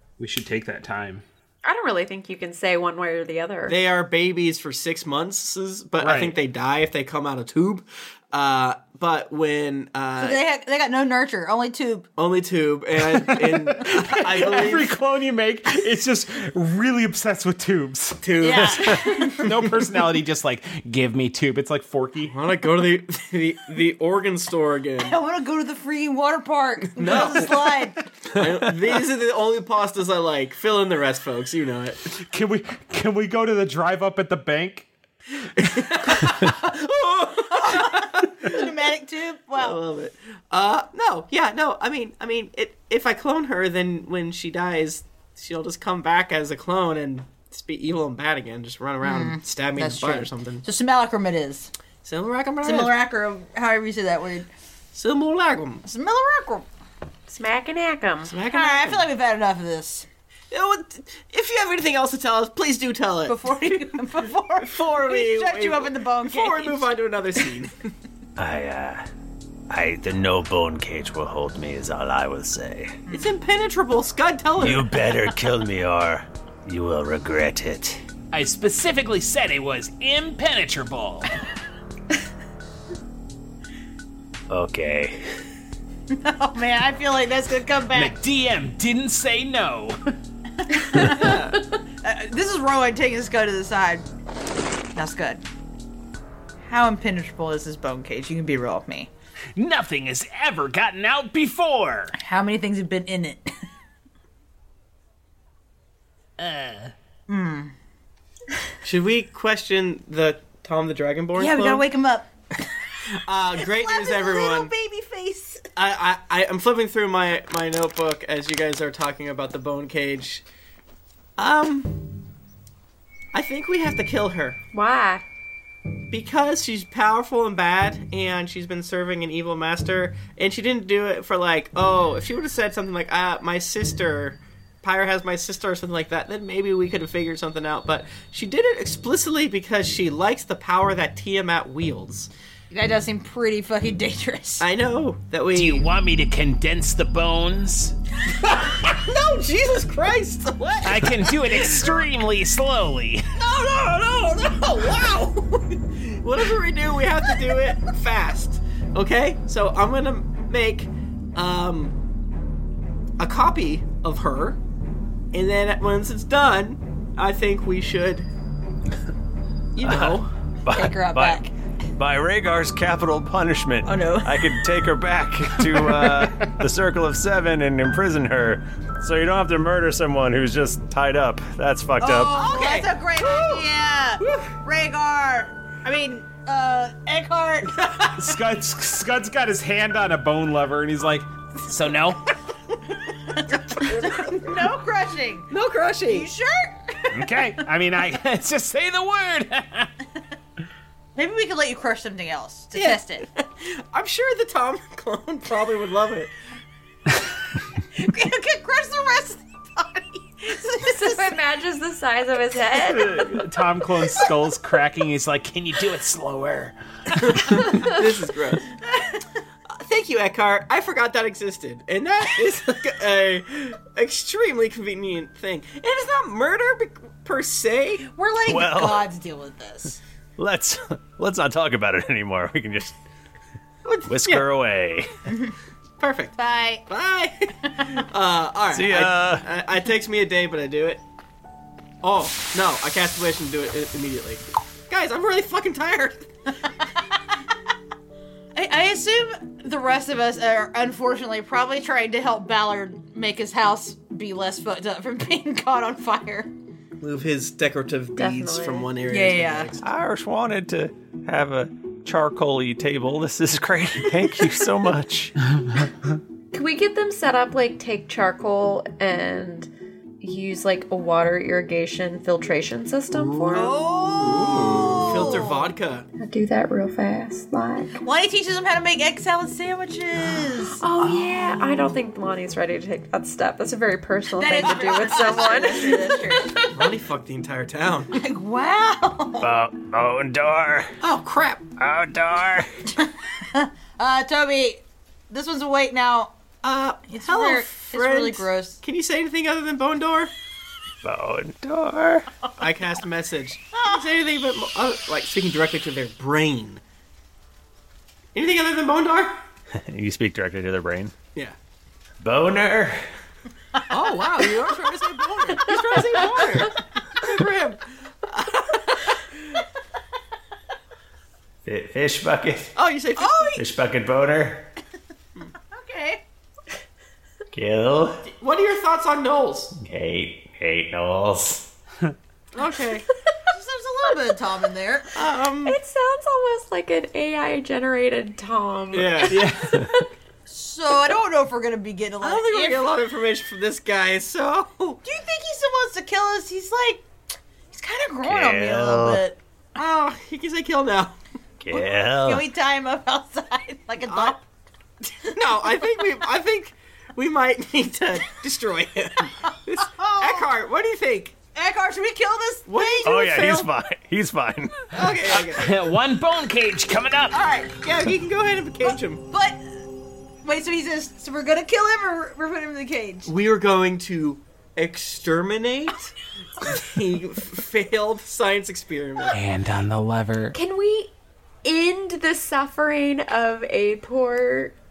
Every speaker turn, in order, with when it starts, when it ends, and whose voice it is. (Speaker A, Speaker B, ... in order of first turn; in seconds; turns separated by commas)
Speaker A: 0.2-1.2, Speaker B: 1.6-3.8, Speaker C: 3.7-10.4, Speaker A: 6.0-6.4, Speaker D: 10.2-12.1, Speaker C: 12.2-14.9, Speaker A: 13.0-18.3, Speaker D: 13.9-14.9, Speaker C: 18.2-19.6, Speaker D: 18.4-19.7, Speaker A: 19.4-22.4, Speaker C: 22.3-25.2, Speaker D: 25.0-28.1, Speaker C: 27.0-27.8, Speaker C: 28.4-32.0, Speaker A: 32.2-34.9, Speaker C: 35.6-38.7, Speaker D: 37.4-39.8, Speaker C: 39.6-50.6, Speaker D: 49.0-51.7, Speaker C: 52.0-53.0, Speaker D: 52.6-54.5, Speaker C: 54.9-55.8, Speaker D: 55.9-56.6, Speaker B: 57.3-58.3, Speaker C: 58.3-59.1, Speaker D: 58.5-60.1, Speaker C: 60.5-64.1, Speaker D: 63.3-67.0, Speaker C: 64.6-67.9, Speaker E: 68.4-69.1, Speaker E: 69.7-73.0, Speaker D: 73.1-73.3, Speaker C: 73.1-75.2, Speaker E: 74.6-78.0, Speaker F: 78.3-81.3, Speaker E: 84.5-85.2, Speaker D: 86.1-88.2, Speaker F: 87.9-90.0, Speaker D: 90.6-94.1, Speaker C: 91.0-91.6, Speaker D: 94.9-95.4, Speaker D: 96.6-99.1, Speaker F: 99.6-102.1, Speaker D: 102.2-103.5, Speaker F: 106.4-106.9, Speaker D: 107.3-107.7, Speaker C: 108.8-111.9, Speaker D: 111.3-112.3, Speaker C: 113.2-114.7, Speaker D: 113.6-115.7, Speaker C: 115.8-120.5, Speaker C: 121.4-122.1, Speaker C: 123.3-124.6, Speaker B: 124.7-125.2, Speaker C: 126.1-142.3, Speaker D: 142.7-144.7, Speaker C: 144.6-145.9, Speaker F: 145.5-147.9, Speaker C: 148.8-151.7, Speaker F: 150.8-153.3, Speaker D: 153.5-155.6, Speaker C: 154.8-155.1, Speaker C: 156.2-161.9, Speaker D: 157.3-157.5, Speaker C: 163.2-164.6, Speaker C: 165.3-168.3, Speaker C: 169.8-170.3, Speaker E: 169.8-182.5, Speaker D: 170.7-171.5, Speaker D: 173.8-174.7, Speaker D: 182.0-188.4, Speaker C: 182.3-184.5, Speaker A: 188.3-191.3, Speaker F: 191.7-192.2, Speaker D: 193.3-195.5, Speaker C: 193.8-194.5, Speaker C: 195.5-196.3, Speaker D: 196.1-197.7, Speaker F: 197.2-199.9, Speaker D: 201.2-203.3, Speaker C: 202.7-206.3, Speaker D: 207.9-211.4, Speaker B: 210.8-213.3, Speaker A: 212.9-215.0, Speaker F: 213.4-213.7, Speaker F: 214.2-216.8, Speaker C: 217.2-218.7, Speaker C: 219.8-228.1, Speaker D: 228.1-230.0, Speaker E: 228.4-229.1, Speaker E: 230.4-233.0, Speaker C: 233.8-234.5, Speaker E: 234.1-235.1, Speaker C: 236.0-236.4, Speaker D: 236.4-236.8, Speaker C: 236.9-241.0, Speaker E: 238.7-239.4, Speaker C: 242.0-246.3, Speaker D: 248.6-256.5, Speaker C: 257.0-259.9, Speaker B: 258.2-258.9, Speaker D: 259.1-259.7, Speaker E: 259.8-265.3, Speaker B: 266.5-269.7, Speaker B: 270.2-273.7, Speaker C: 273.4-276.1, Speaker D: 273.5-275.7, Speaker B: 276.2-277.9, Speaker D: 278.0-281.6, Speaker B: 280.8-286.7, Speaker D: 284.3-286.7, Speaker C: 284.6-285.0, Speaker C: 286.7-288.1, Speaker D: 288.1-289.5, Speaker E: 289.4-290.9, Speaker C: 291.0-291.6, Speaker E: 291.8-292.7, Speaker D: 293.0-296.3, Speaker C: 296.6-300.3, Speaker D: 297.1-298.8, Speaker E: 301.0-302.3, Speaker C: 302.6-306.8, Speaker C: 308.4-309.4, Speaker E: 309.8-311.1, Speaker E: 312.2-313.1, Speaker D: 313.8-315.6, Speaker C: 313.9-319.2, Speaker E: 321.6-322.7, Speaker C: 322.8-323.6, Speaker D: 323.2-323.7, Speaker E: 323.6-324.7, Speaker D: 325.7-326.2, Speaker E: 327.5-328.2, Speaker C: 328.4-329.7, Speaker E: 329.8-331.7, Speaker C: 332.6-333.1, Speaker D: 333.5-335.1, Speaker C: 335.1-335.8, Speaker B: 335.6-340.0, Speaker C: 338.9-339.5, Speaker A: 339.3-339.8, Speaker D: 340.5-342.9, Speaker C: 342.2-345.0, Speaker D: 345.0-347.1, Speaker D: 347.7-349.4, Speaker E: 348.2-349.2, Speaker C: 349.8-351.1, Speaker E: 351.6-352.5, Speaker D: 351.7-354.4, Speaker C: 354.0-354.4, Speaker C: 355.3-361.4, Speaker D: 359.8-360.5, Speaker D: 361.5-363.2, Speaker C: 362.7-363.7, Speaker E: 363.0-364.9, Speaker C: 364.9-365.7, Speaker F: 365.4-367.4, Speaker C: 367.3-369.2, Speaker D: 368.8-369.6, Speaker D: 370.4-373.3, Speaker C: 373.3-379.4, Speaker F: 379.3-380.5, Speaker B: 380.5-381.1, Speaker B: 381.6-384.8